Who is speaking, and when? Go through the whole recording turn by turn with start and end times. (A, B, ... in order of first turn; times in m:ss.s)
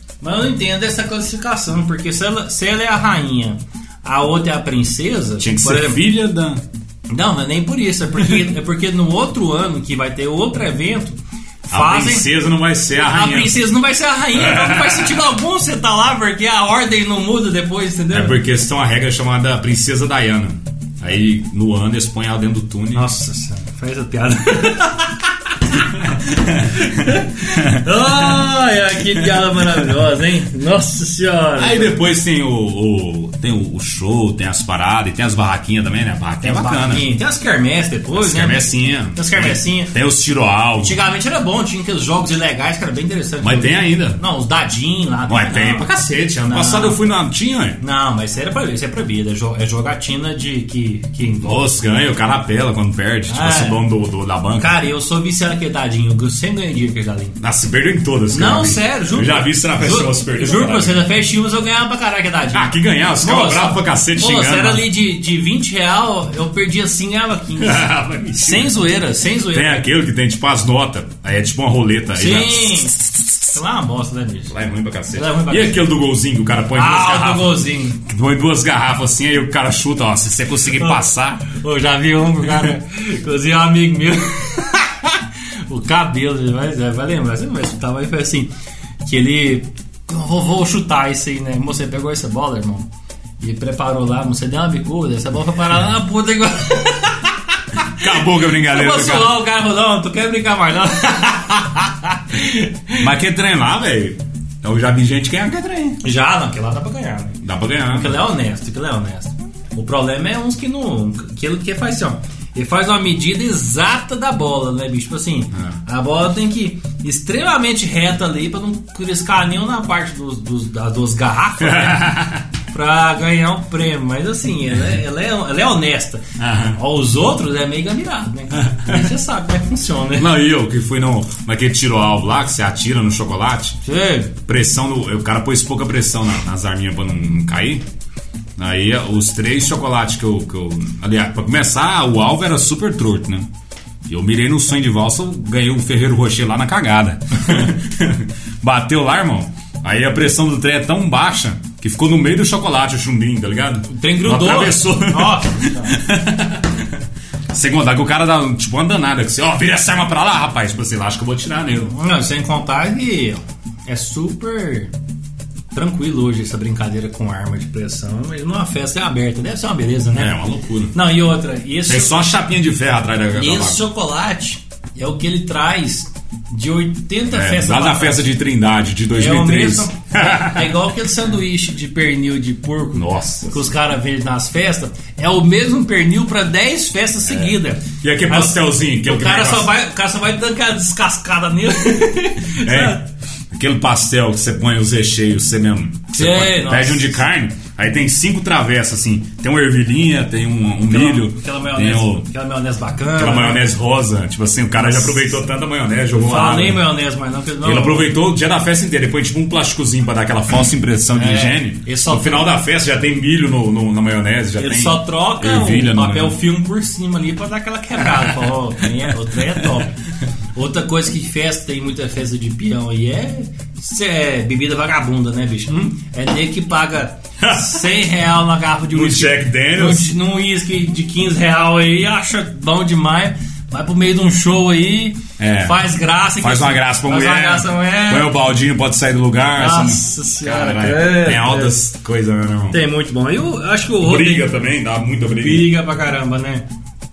0:00.2-0:06.0 A
0:05.4-0:06.6 B
0:07.1-0:11.2 A
0:11.7-0:13.6 B
0:11.7-0:12.3 A
0:13.0-0:18.4 A
0:14.3-0:15.3 B
0:18.1-0:23.1 B
0:22.9-0:32.0 A
0:25.9-0:28.5 B
0:29.2-0:29.9 B
0:31.6-0:37.1 B
0:36.4-0:39.9 A
0:38.1-0:41.0 B
0:40.8-0:45.9 A
0:43.4-0:44.2 B
0:45.3-0:47.8 B
0:46.4-0:47.0 A
0:47.8-0:51.6 A
0:51.4-0:54.8 B
0:53.3-0:53.8 A
0:54.6-0:57.4 A
0:57.4-1:01.0 B
0:58.3-1:07.8 A
1:02.5-1:04.8 B
1:07.6-1:08.8 B
1:08.4-1:09.8 A
1:09.5-1:12.9 B
1:12.1-1:14.5 A
1:14.5-1:21.5 B
1:15.1-1:15.9 A
1:16.7-1:18.0 A
1:20.8-1:28.5 A
1:29.0-1:32.9 A
1:33.4-1:43.1 A
1:38.0-1:39.4 B
1:43.0-1:46.0 B
1:46.0-2:02.2 A
1:47.4-1:48.2 B
2:01.6-2:02.4 B
2:02.7-2:06.2 A
2:06.4-2:06.8 B
2:06.8-2:10.3 A
2:08.5-2:09.1 B
2:10.2-2:13.8 B
2:13.8-2:14.3 A
2:14.4-2:17.8 B
2:18.6-2:23.5 B
2:24.1-2:37.0 B
2:33.9-2:36.0 A
2:37.5-2:41.9 B
2:41.8-2:44.9 A
2:45.7-2:50.3 A
2:50.2-2:51.0 B
2:50.9-2:52.2 A
2:51.9-2:53.8 B
2:53.3-2:58.3 A
2:57.3-3:00.8 B
2:59.1-3:13.0 A
3:02.9-3:03.7 B
3:07.3-3:09.7 B
3:12.6-3:13.0 B
3:13.5-3:22.2 B
3:16.2-3:17.1 A
3:20.9-3:23.6 A
3:23.2-3:26.9 B
3:24.8-3:25.4 A
3:26.2-3:28.1 A
3:27.6-3:36.4 B
3:31.1-3:32.5 A
3:34.6-3:40.0 A
3:38.0-3:39.9 B
3:40.6-3:58.3 A
3:47.4-3:47.9 B
3:48.9-3:50.1 B
3:55.4-3:55.8 B
3:56.4-4:02.8 B
3:59.6-4:01.8 A
4:02.7-4:04.5 A
4:04.0-4:05.7 B
4:05.4-4:06.6 A